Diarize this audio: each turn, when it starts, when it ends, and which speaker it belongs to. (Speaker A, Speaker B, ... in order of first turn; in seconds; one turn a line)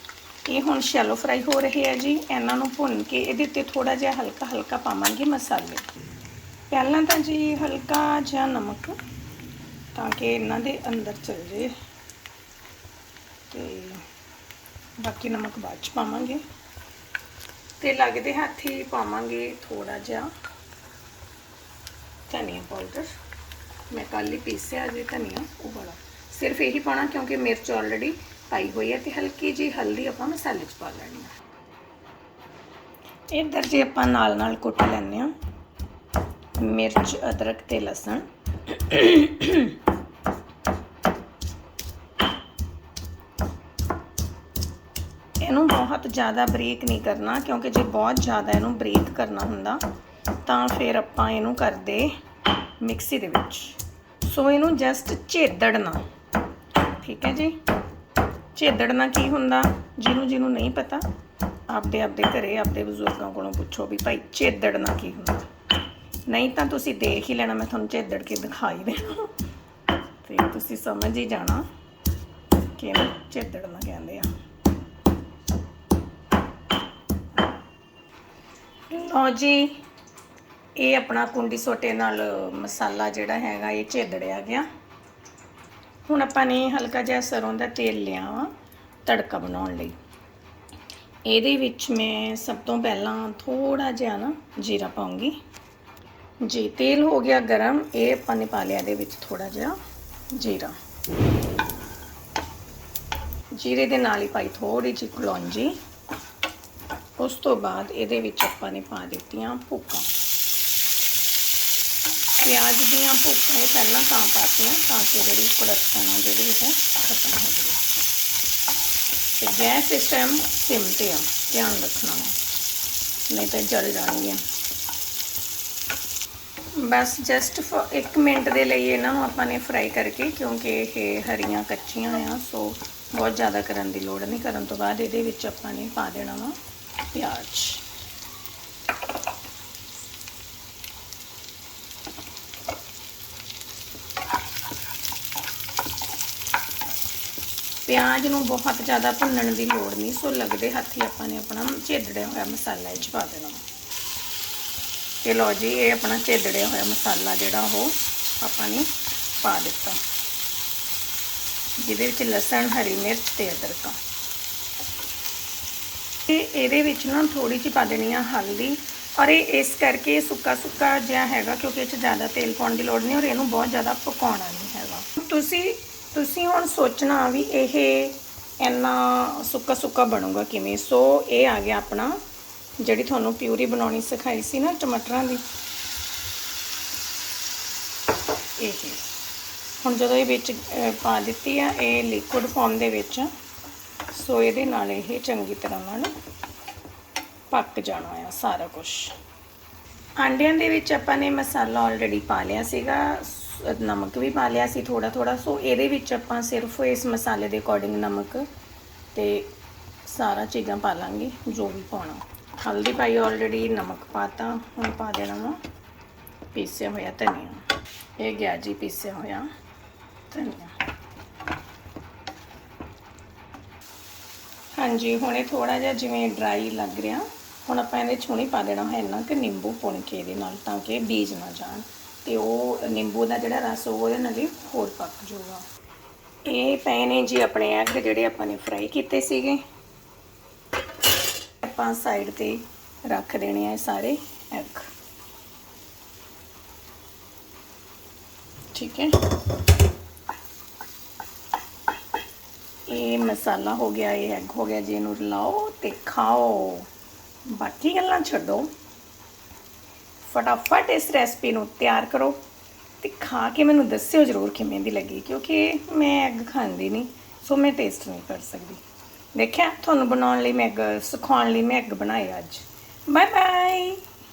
Speaker A: 0.5-5.8
Speaker A: 6.7-9.0
Speaker A: 9.9-11.7
Speaker A: 13.5-14.0
Speaker A: 15.0-16.4
Speaker A: 17.8-20.3
Speaker A: 22.3-23.1
Speaker A: 23.9-31.3
Speaker A: 33.3-35.3
Speaker A: 36.6-39.8
Speaker A: 45.4-49.8
Speaker A: 50.5-52.1
Speaker A: 52.8-56.0
Speaker A: 56.9-57.6
Speaker A: 58.5-61.0
Speaker A: 61.7-65.5
Speaker A: 66.3-69.3
Speaker A: 70.2-71.7
Speaker A: 72.8-74.3
Speaker A: 78.9-79.7
Speaker A: 80.8-84.7
Speaker A: 86.1-88.5
Speaker A: 89.1-90.0
Speaker A: 91.3-95.4
Speaker A: 96.4-99.8
Speaker A: 100.3-100.8
Speaker A: 103.5-105.8
Speaker A: 107.2-110.1
Speaker A: 112.4-117.8
Speaker A: 119.4-122.3
Speaker A: 123.3-124.4
Speaker A: 126.7-136.6
Speaker A: 137.1-137.8
Speaker A: 147.9-153.6
Speaker A: 155.2-160.0
Speaker A: 161.8-164.0
Speaker A: 166.3-182.2
Speaker A: 182.8-185.4
Speaker A: 188.6-189.0
Speaker A: 189.8-193.3
Speaker A: 194.1-196.1
Speaker A: 197.5-199.1
Speaker A: 200.2-208.5
Speaker A: 209.1-209.5
Speaker A: 210.1-215.6
Speaker A: 216.5-217.7
Speaker A: 218.2-219.5
Speaker A: 220.3-220.7
Speaker A: 224.8-235.6
Speaker A: 236.5-239.6
Speaker A: 241.6-244.9
Speaker A: 248.7-249.2
Speaker A: 252.9-256.9
Speaker A: 257.5-258.7
Speaker A: 260.2-262.4
Speaker A: 263.0-268.8
Speaker A: 269.3-274.0